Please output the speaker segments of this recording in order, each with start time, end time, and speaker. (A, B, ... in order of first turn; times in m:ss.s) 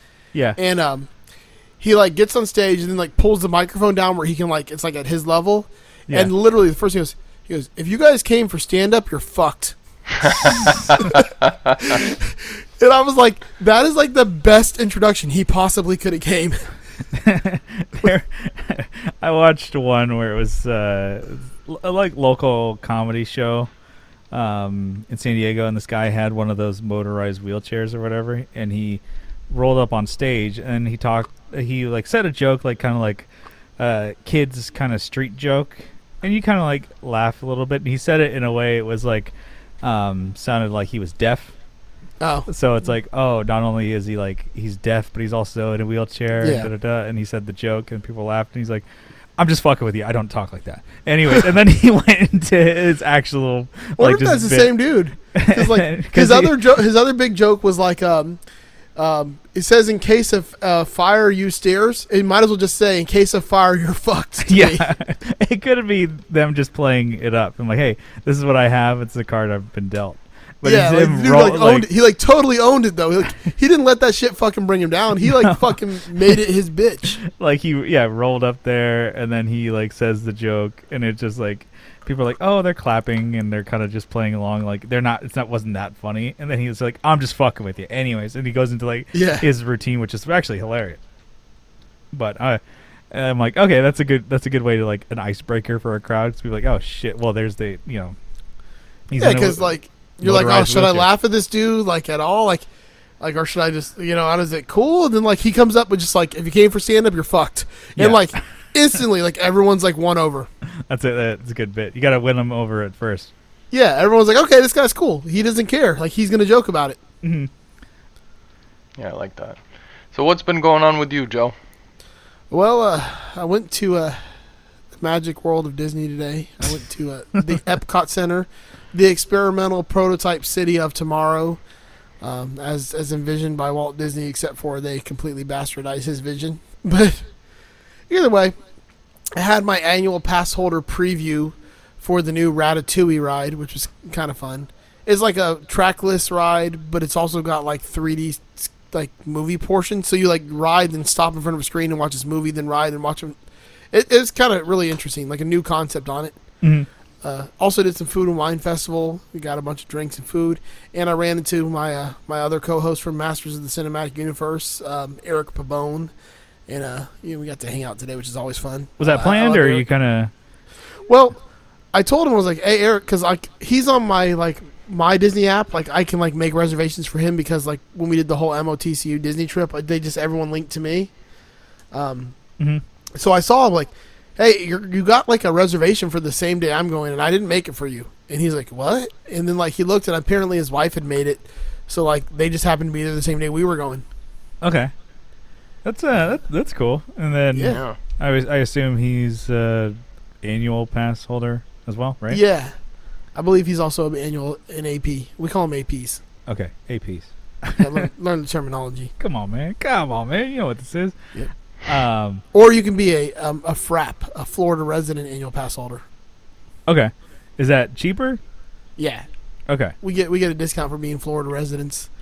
0:00.3-0:00.6 A
0:00.6-0:01.1 B
0:01.8-0:11.3 B
0:10.2-0:11.8 C
0:11.8-0:16.7 B
0:17.1-0:23.7 A
0:24.3-0:33.3 A
0:33.8-0:41.5 A
0:42.2-0:42.5 B
0:42.5-0:48.8 A
0:46.4-0:46.7 B
0:49.4-0:56.7 A
0:54.0-0:58.4 B
0:59.0-1:04.9 B
1:04.4-1:11.9 A
1:10.6-1:17.2 B
1:15.3-1:16.4 A
1:17.2-1:31.0 A
1:29.1-1:29.5 B
1:32.1-1:38.1 A
1:39.1-1:39.7 A
1:39.2-1:42.7 B
1:40.2-1:41.1 A
1:43.2-1:50.5 B
1:48.0-1:48.4 A
1:50.9-1:53.3 A
1:53.7-1:57.0 B
1:57.2-1:57.5 A
1:59.0-1:59.6 C
2:00.1-2:01.5 C
2:02.5-2:04.2 B
2:05.0-2:11.6 B
2:12.2-2:17.3 B
2:18.1-2:18.5 B
2:19.3-2:33.4 B
2:33.9-2:36.4 B
2:36.6-2:36.9 A
2:37.2-2:46.1 B
2:46.7-2:49.8 B
2:49.0-2:50.3 A
2:51.1-2:51.4 B
2:51.9-3:01.1 B
3:01.9-3:02.4 B
3:03.1-3:14.0 B
3:14.6-3:14.9 A
3:15.8-3:22.4 A
3:17.5-3:17.9 B
3:22.3-3:22.7 B
3:23.3-3:26.2 B
3:26.5-3:28.0 A
3:27.8-3:29.1 B
3:29.2-3:31.2 A
3:31.8-3:32.4 A
3:32.5-3:36.0 B
3:36.9-3:38.4 A
3:39.0-3:39.2 B
3:39.7-3:39.9 A
3:40.0-3:42.1 B